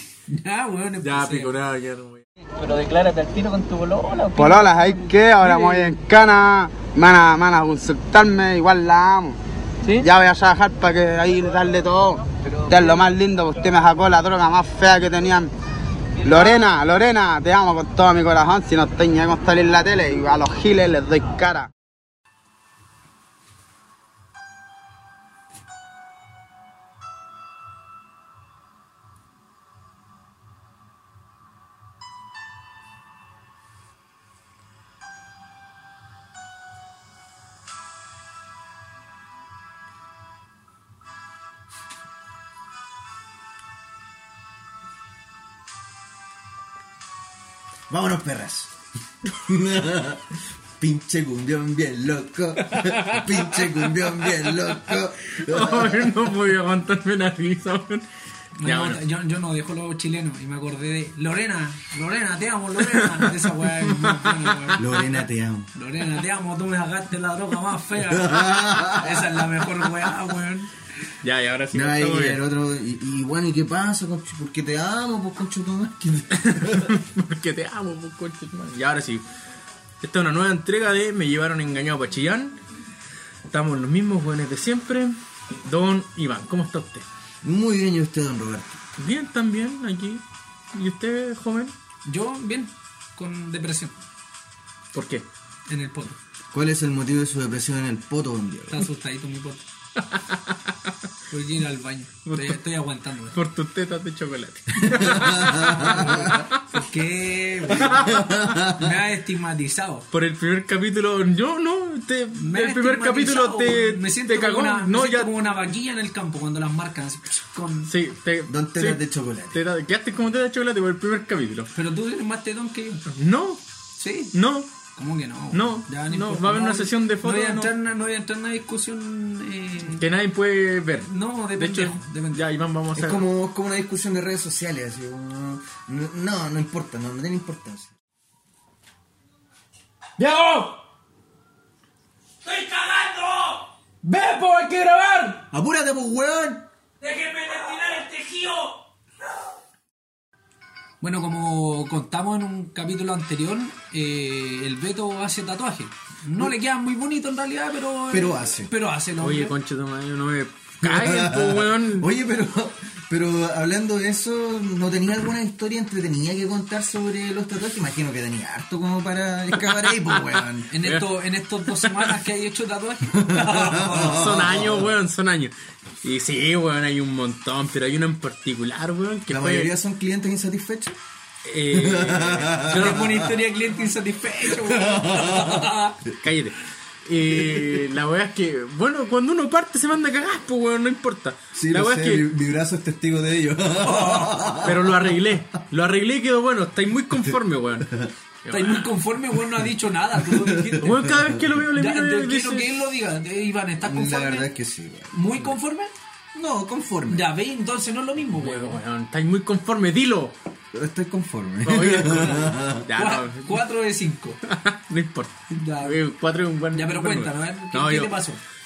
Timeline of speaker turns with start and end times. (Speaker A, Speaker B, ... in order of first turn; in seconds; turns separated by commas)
Speaker A: 0.3-1.5, Speaker B: 1.0-2.3, Speaker C: 2.5-4.7, Speaker D: 4.4-9.4, Speaker D: 10.0-15.5, Speaker D: 16.2-21.7, Speaker E: 47.9-48.7, Speaker E: 49.3-56.3, Speaker B: 52.6-58.0, Speaker A: 58.6-65.0, Speaker B: 58.6-59.0, Speaker B: 62.8-64.9, Speaker E: 64.8-65.7, Speaker A: 65.8-70.7, Speaker E: 68.1-69.4, Speaker B: 71.2-72.4, Speaker E: 71.7-76.9, Speaker B: 76.3-79.2, Speaker B: 80.0-82.6, Speaker B: 83.5-87.0, Speaker E: 87.4-88.8, Speaker B: 89.0-91.7, Speaker A: 92.1-93.9, Speaker B: 94.9-95.3, Speaker A: 95.7-96.2, Speaker E: 96.5-98.9, Speaker A: 98.7-99.6, Speaker B: 100.0-100.7, Speaker A: 101.3-103.4, Speaker B: 102.2-102.6, Speaker B: 103.3-106.6, Speaker E: 104.8-106.5, Speaker A: 106.7-110.1, Speaker B: 107.7-108.5, Speaker E: 108.0-108.8, Speaker B: 110.1-115.6, Speaker A: 112.3-117.9, Speaker B: 117.9-121.7, Speaker E: 118.5-119.6, Speaker A: 121.7-123.0, Speaker B: 123.1-123.6, Speaker A: 124.0-124.3, Speaker B: 124.3-124.7, Speaker A: 125.0-130.0, Speaker B: 125.5-127.7, Speaker B: 129.9-133.3, Speaker A: 131.1-132.4, Speaker E: 132.9-137.9, Speaker B: 140.2-140.8, Speaker A: 142.5-143.6, Speaker B: 144.0-145.4, Speaker E: 145.5-146.7, Speaker A: 147.1-148.7, Speaker A: 151.0-159.5, Speaker E: 158.1-158.7, Speaker B: 159.2-162.1, Speaker E: 160.8-170.7, Speaker B: 169.7-172.2, Speaker A: 170.7-174.3, Speaker E: 173.1-174.9, Speaker B: 173.9-179.7, Speaker E: 179.3-181.0, Speaker B: 181.4-183.2, Speaker E: 181.7-183.3, Speaker A: 182.7-186.0, Speaker E: 184.7-185.7, Speaker B: 186.2-192.3, Speaker E: 191.6-195.2, Speaker A: 193.8-194.7, Speaker B: 194.6-198.9, Speaker A: 198.5-201.0, Speaker E: 200.2-201.6, Speaker B: 200.8-202.7, Speaker A: 201.8-204.5, Speaker E: 203.8-205.2, Speaker A: 205.1-205.9, Speaker E: 206.3-207.3, Speaker A: 207.1-208.8, Speaker B: 208.3-210.3, Speaker E: 210.7-212.9, Speaker B: 211.6-213.6, Speaker A: 212.9-214.4, Speaker B: 214.4-218.2, Speaker A: 215.5-216.0, Speaker A: 216.7-218.4